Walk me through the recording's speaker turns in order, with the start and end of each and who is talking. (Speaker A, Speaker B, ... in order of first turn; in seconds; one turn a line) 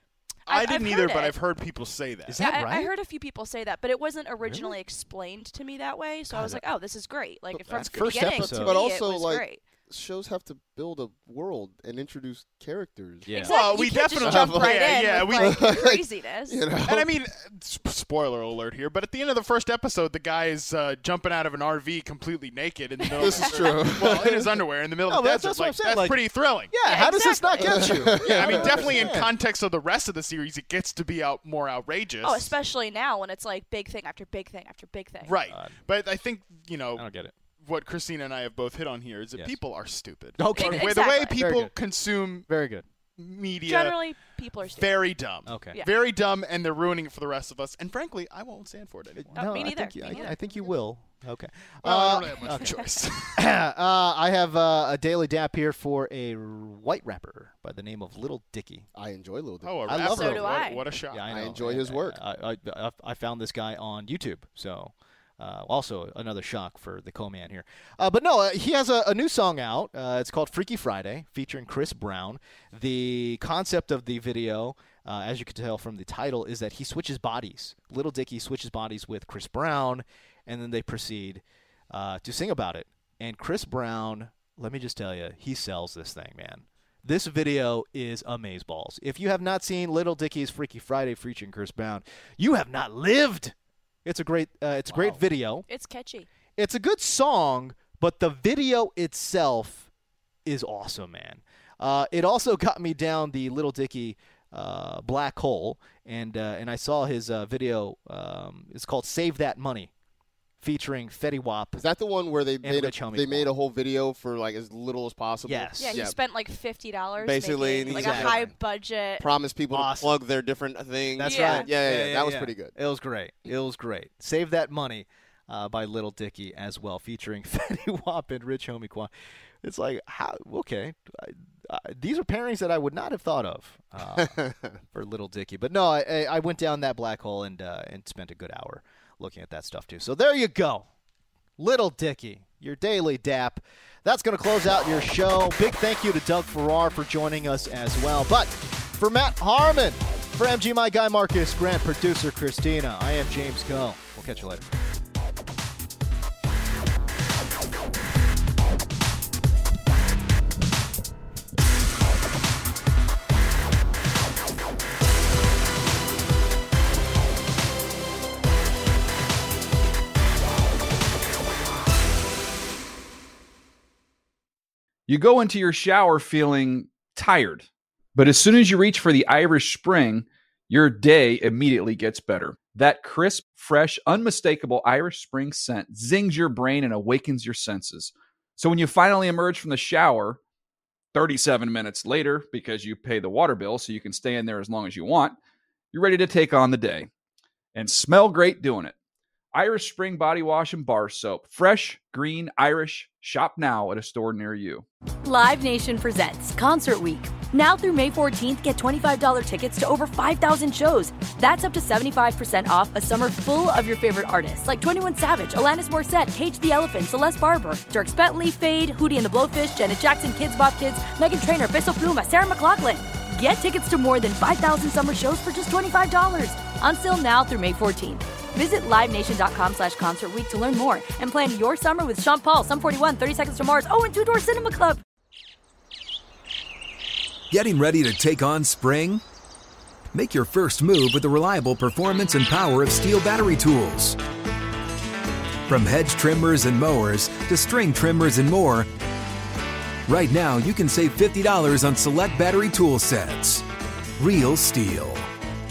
Speaker A: 0.5-2.4
Speaker B: 0.5-1.4
Speaker C: 2.3-2.9
Speaker B: 2.4-9.7
Speaker C: 4.4-4.8
Speaker C: 6.3-6.6
Speaker D: 7.7-13.4
Speaker C: 7.7-8.8
Speaker C: 13.3-13.6
Speaker B: 13.3-16.7
Speaker A: 13.3-15.6
Speaker D: 14.2-17.1
Speaker A: 16.8-26.7
Speaker B: 23.2-23.7
Speaker D: 23.2-24.5
Speaker C: 25.1-29.3
Speaker B: 26.8-28.8
Speaker D: 27.7-29.1
Speaker A: 28.2-32.5
Speaker B: 32.2-35.4
Speaker A: 35.2-37.1
Speaker C: 35.5-35.8
Speaker C: 37.0-37.3
Speaker A: 37.6-42.5
Speaker C: 40.4-41.7
Speaker B: 40.5-41.4
Speaker C: 42.5-42.8
Speaker A: 43.2-44.0
Speaker B: 43.7-45.1
Speaker A: 44.7-50.3
Speaker C: 45.5-45.8
Speaker B: 45.7-46.0
Speaker C: 49.2-52.8
Speaker B: 49.3-50.7
Speaker A: 51.8-53.4
Speaker B: 52.5-53.0
Speaker C: 53.4-58.9
Speaker D: 59.0-60.5
Speaker A: 59.6-61.4
Speaker C: 59.9-60.5
Speaker B: 60.0-60.8
Speaker C: 61.1-93.5
Speaker D: 61.3-62.2
Speaker C: 94.0-95.7
Speaker B: 95.7-96.3
Speaker C: 96.6-99.9
Speaker C: 100.5-109.9
Speaker C: 110.6-111.8
Speaker D: 111.8-116.2
Speaker C: 112.6-113.5
Speaker C: 115.5-116.0
Speaker B: 115.8-119.3
Speaker D: 117.2-118.4
Speaker C: 117.9-118.5
Speaker D: 119.2-122.8
Speaker C: 119.7-120.2
Speaker C: 121.2-129.1
Speaker B: 121.2-121.7
Speaker C: 129.6-140.9
Speaker D: 134.2-134.8
Speaker C: 141.6-154.7
Speaker E: 175.1-190.4
Speaker E: 191.1-195.4
Speaker E: 195.9-197.1
Speaker E: 197.7-198.9
Speaker E: 199.5-204.9
Speaker F: 205.2-235.0
Speaker G: 237.5-239.2
Speaker G: 240.1-244.2
Speaker G: 245.7-248.9
Speaker G: 250.1-253.6
Speaker G: 254.2-255.3